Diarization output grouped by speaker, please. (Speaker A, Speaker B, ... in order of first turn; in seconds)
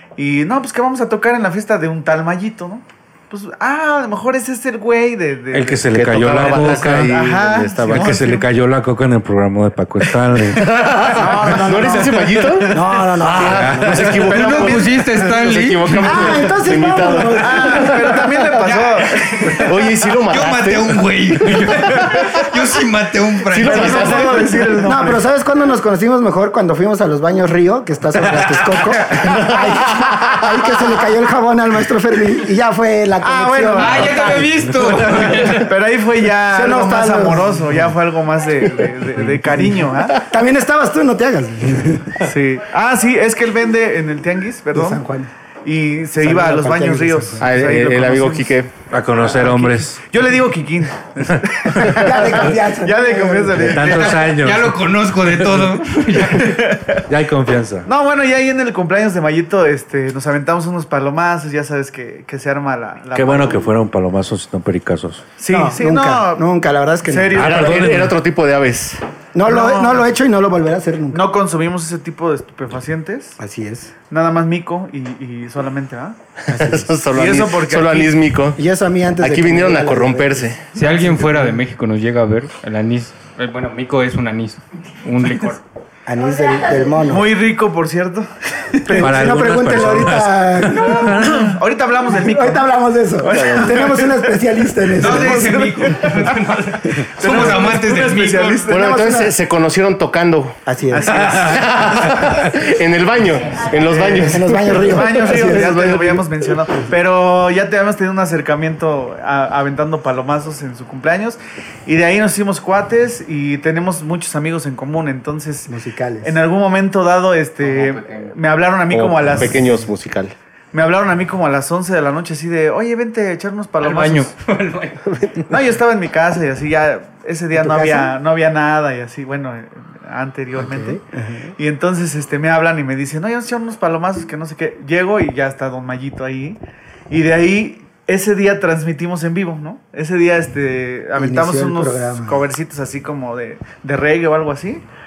Speaker A: 0.2-8.5, 11.1-12.2, 14.0-14.9, 17.4-19.6, 23.6-25.2, 33.2-34.3, 35.1-40.3, 42.2-45.0, 45.6-48.5, 49.2-54.3, 56.2-57.0, 57.9-63.7, 65.4-66.4, 67.0-67.9, 69.4-70.1, 71.1-73.4, 74.1-76.2, 77.1-78.2, 87.0-89.3, 91.0-96.3, 97.0-99.0, 100.9-102.4, 103.5-119.9, 120.7-124.3, 125.5-131.0, 131.6-136.6, 137.1-144.8
Speaker B: 5.5-7.2, 7.9-10.9, 12.4-14.3, 48.9-50.0, 53.6-55.8, 57.1-57.9, 63.1-65.2, 67.4-68.2, 89.0-91.6
Speaker C: 5.9-8.2, 10.5-18.3, 19.5-22.5, 23.5-24.9, 29.2-30.1, 47.4-48.7, 67.3-69.0, 76.5-78.6, 79.2-80.6, 93.3-93.7, 98.7-100.6, 101.4-106.2, 118.9-120.3
Speaker D: 11.2-14.2, 16.0-18.0, 24.8-35.3, 36.5-37.8, 40.1-42.2, 44.7-45.3, 46.2-47.5, 51.8-54.0, 65.5-67.5, 69.3-71.3, 73.4-73.9, 76.5-77.0, 78.6-81.5, 86.0-87.3, 88.8-91.3, 92.0-96.0, 98.7-99.3, 100.7-101.4, 104.2-106.0, 115.7-116.4, 127.5-128.1, 130.6-131.5, 141.2-142.4
Speaker E: 14.2-16.5, 18.6-19.7, 20.3-24.4, 33.8-35.7, 54.3-56.6, 80.7-85.6, 95.0-98.6, 117.6-118.3, 123.8-125.0